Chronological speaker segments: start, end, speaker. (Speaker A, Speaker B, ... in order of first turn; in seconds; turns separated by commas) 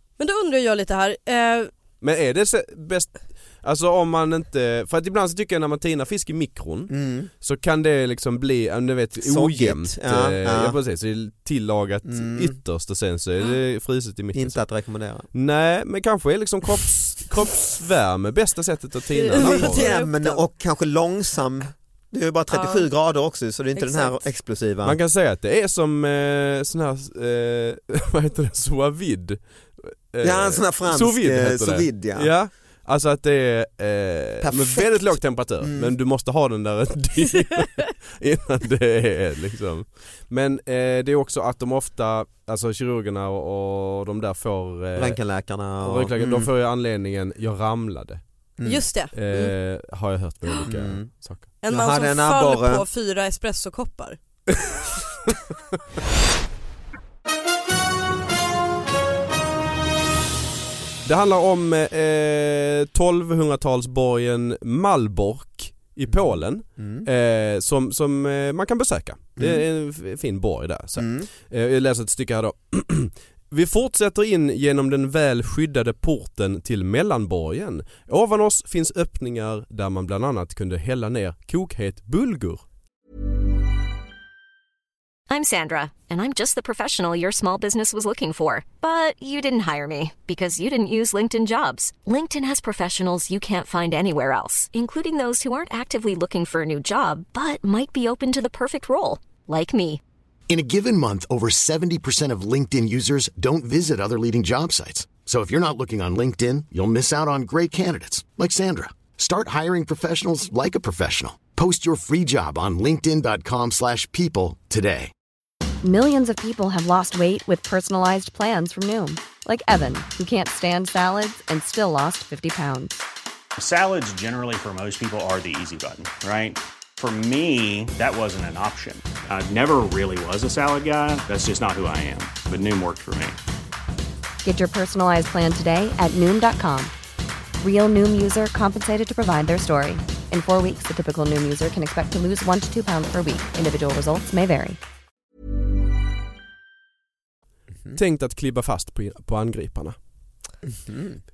Speaker A: 0.2-1.7, Speaker B: 2.0-14.6, Speaker C: 6.9-7.3, Speaker C: 9.2-10.8, Speaker C: 12.1-12.6, Speaker C: 14.3-15.3, Speaker B: 15.3-19.9, Speaker A: 19.1-20.4, Speaker C: 19.4-25.0, Speaker A: 22.5-22.9, Speaker A: 23.7-24.2, Speaker B: 24.8-45.2, Speaker C: 30.2-32.3, Speaker C: 34.4-35.9, Speaker C: 45.0-46.5, Speaker B: 45.8-48.2, Speaker C: 48.6-48.8, Speaker A: 48.6-49.5, Speaker B: 49.1-51.4, Speaker C: 50.7-52.8, Speaker A: 51.6-54.2, Speaker B: 61.0-82.6, Speaker C: 66.1-67.1, Speaker C: 69.4-69.6, Speaker C: 71.0-71.3, Speaker D: 85.3-100.0, Speaker E: 100.5-115.1, Speaker F: 115.8-123.0, Speaker G: 123.6-133.4, Speaker F: 134.4-136.9, Speaker F: 137.6-144.8, Speaker B: 147.9-149.9, Speaker C: 150.7-151.2